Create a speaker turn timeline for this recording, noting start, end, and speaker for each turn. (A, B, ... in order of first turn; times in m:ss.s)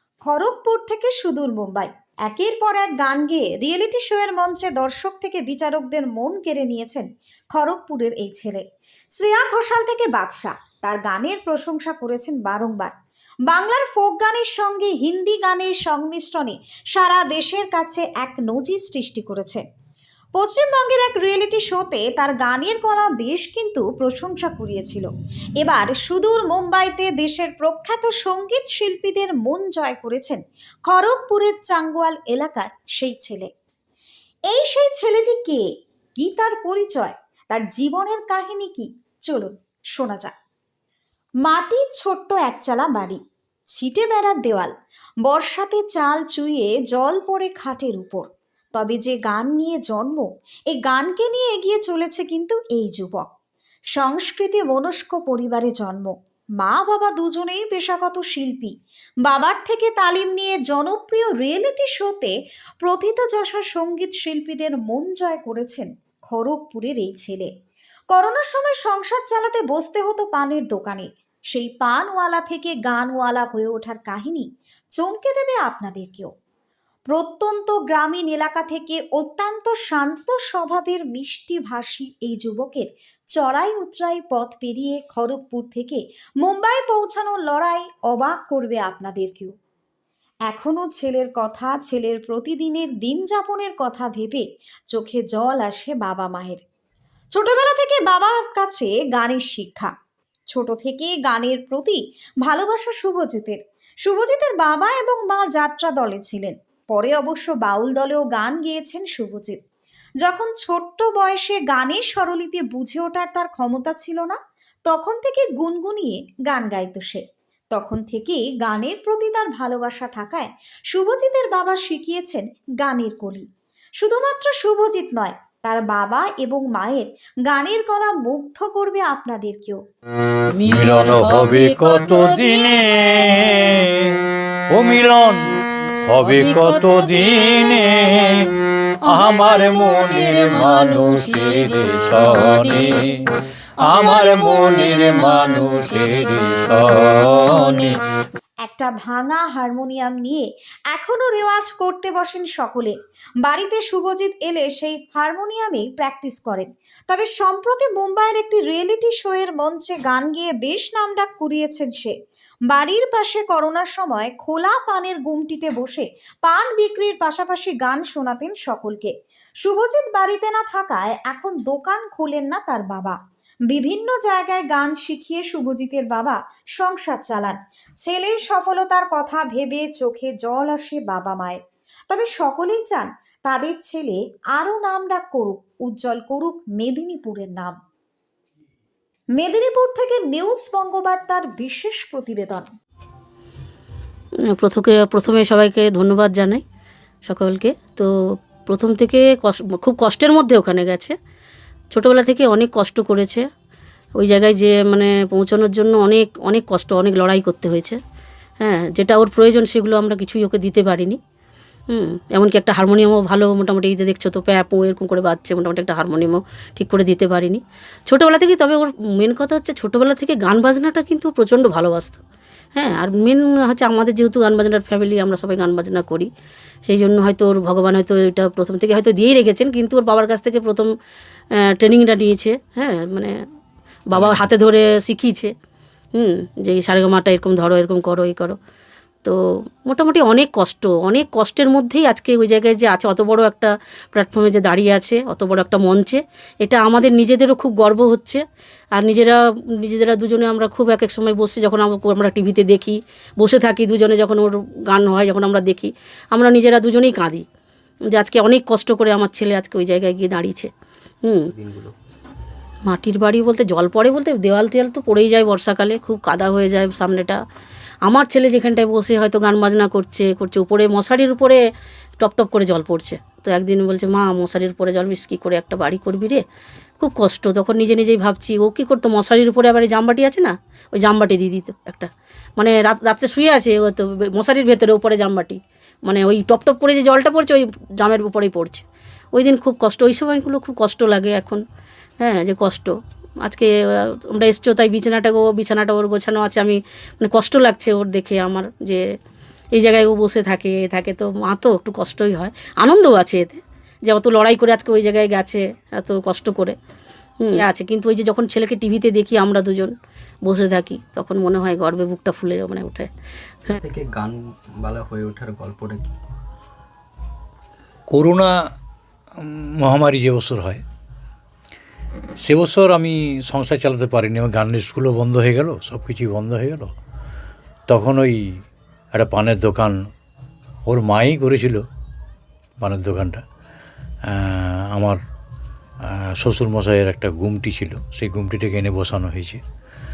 0:00.2-0:08.6 A
0:09.1-0:12.9 A
0:13.5-0:19.6 A
0:20.3-0:25.1 A
0:25.6-0:33.5 A
0:34.5-0:35.6 A
0:36.2-0:40.3 A
0:41.4-0:43.2 A
0:43.7-0:44.7 A
0:45.2-0:53.3 A
0:53.9-0:58.7 A
0:59.2-1:07.5 A
1:08.1-1:16.3 A
1:17.1-1:29.5 A
1:30.5-1:36.6 A
1:37.3-1:39.9 A
1:40.5-1:49.6 A
1:50.2-2:03.4 A
2:04.0-2:09.8 A
2:10.5-2:13.2 B
2:10.6-2:14.2 C
2:14.7-2:15.4 C
2:16.0-2:18.5 C
2:16.2-2:18.3 B
2:19.0-2:23.2 C
2:19.1-2:23.1 B
2:23.8-2:27.9 C
2:23.8-2:25.3 B
2:28.6-2:42.1 A
2:42.7-2:53.2 A
2:53.7-3:07.8 A
3:09.3-3:12.7 A
3:14.5-3:16.6 B
3:17.2-3:18.1 B
3:18.6-3:21.1 B
3:21.9-3:23.4 B
3:24.2-3:28.0 B
3:28.6-3:31.2 B
3:31.9-3:42.2 B
3:42.8-3:46.3 B
3:46.8-3:50.9 B
3:51.8-3:53.3 B
3:54.1-3:55.5 B
3:54.1-3:54.5 C
3:56.1-3:58.6 B
3:59.2-4:08.4 B
4:09.0-4:17.4 B
4:18.1-4:20.7 B
4:21.5-4:21.9 D
4:22.9-4:27.4 B
4:28.0-4:31.6 B
4:32.2-4:36.4 B
4:37.0-4:51.6 B
4:52.2-4:52.9 B
4:53.4-4:59.0 B
4:59.7-5:06.8 B
5:07.4-5:09.9 B
5:10.4-5:13.1 B
5:13.7-5:16.2 D
5:18.1-5:18.5 C
5:19.4-5:20.8 C
5:22.4-5:26.9 C
5:27.9-5:28.5 C
5:29.1-5:30.0 C
5:30.9-5:31.8 C
5:32.8-5:33.4 C
5:34.3-5:35.2 C
5:36.0-5:39.6 C